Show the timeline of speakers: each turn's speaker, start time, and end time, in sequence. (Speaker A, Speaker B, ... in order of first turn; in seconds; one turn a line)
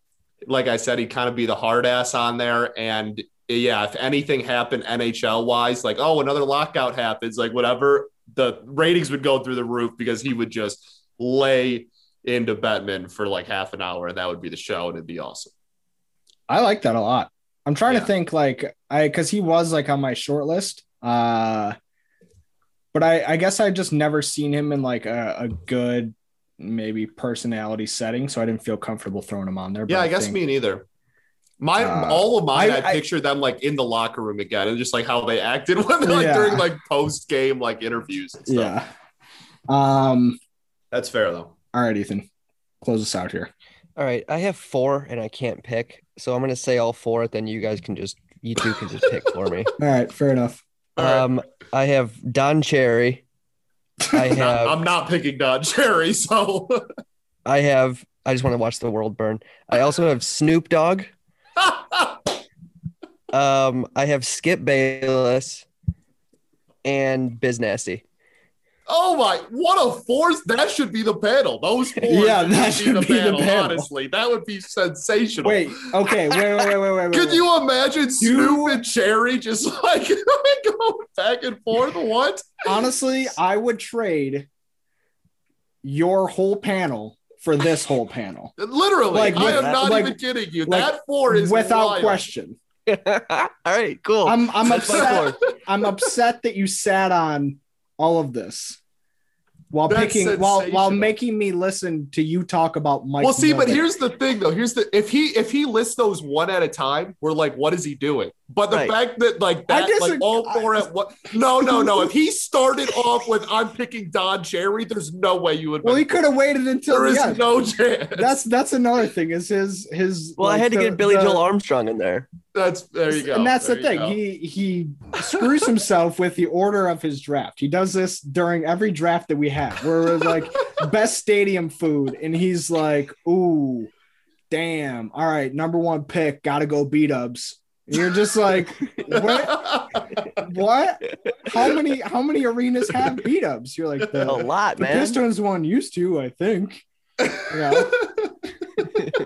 Speaker A: 0.5-15.5
Speaker B: 16.5-21.8
Speaker B: 22.9-30.4
Speaker A: 29.9-30.9
Speaker A: 31.6-38.7
Speaker B: 31.8-33.0
Speaker B: 36.0-36.7
Speaker B: 38.5-38.9
Speaker B: 39.7-40.4
Speaker A: 40.9-41.5
Speaker B: 41.7-42.3
Speaker B: 42.8-43.5
Speaker C: 44.0-49.7
Speaker B: 49.8-50.6
Speaker A: 51.0-51.3
Speaker C: 51.0-53.2
Speaker C: 54.1-54.8
Speaker A: 54.3-56.8
Speaker C: 57.5-61.1
Speaker A: 61.6-62.2
Speaker C: 63.3-65.7
Speaker C: 66.8-68.0
Speaker A: 68.9-76.0
Speaker B: 72.1-73.9
Speaker B: 75.4-77.5
Speaker A: 77.1-82.7
Speaker B: 78.2-78.8
Speaker B: 82.6-84.5
Speaker B: 85.8-88.5
Speaker A: 88.6-92.3
Speaker B: 89.1-92.6
Speaker C: 89.3-89.8
Speaker C: 92.9-95.4
Speaker B: 94.2-98.8
Speaker A: 94.7-95.3
Speaker B: 99.7-103.9
Speaker A: 99.9-101.2
Speaker A: 103.2-116.3
Speaker C: 108.7-109.0
Speaker B: 109.7-110.9
Speaker B: 111.6-112.1
Speaker B: 115.8-117.4
Speaker A: 116.9-118.3
Speaker B: 118.1-121.4
Speaker C: 120.4-122.3
Speaker A: 122.5-124.2
Speaker B: 123.1-133.9
Speaker B: 134.5-139.7
Speaker A: 139.1-140.1
Speaker B: 140.3-146.8
Speaker C: 144.2-145.2
Speaker A: 147.2-148.3
Speaker B: 147.4-148.0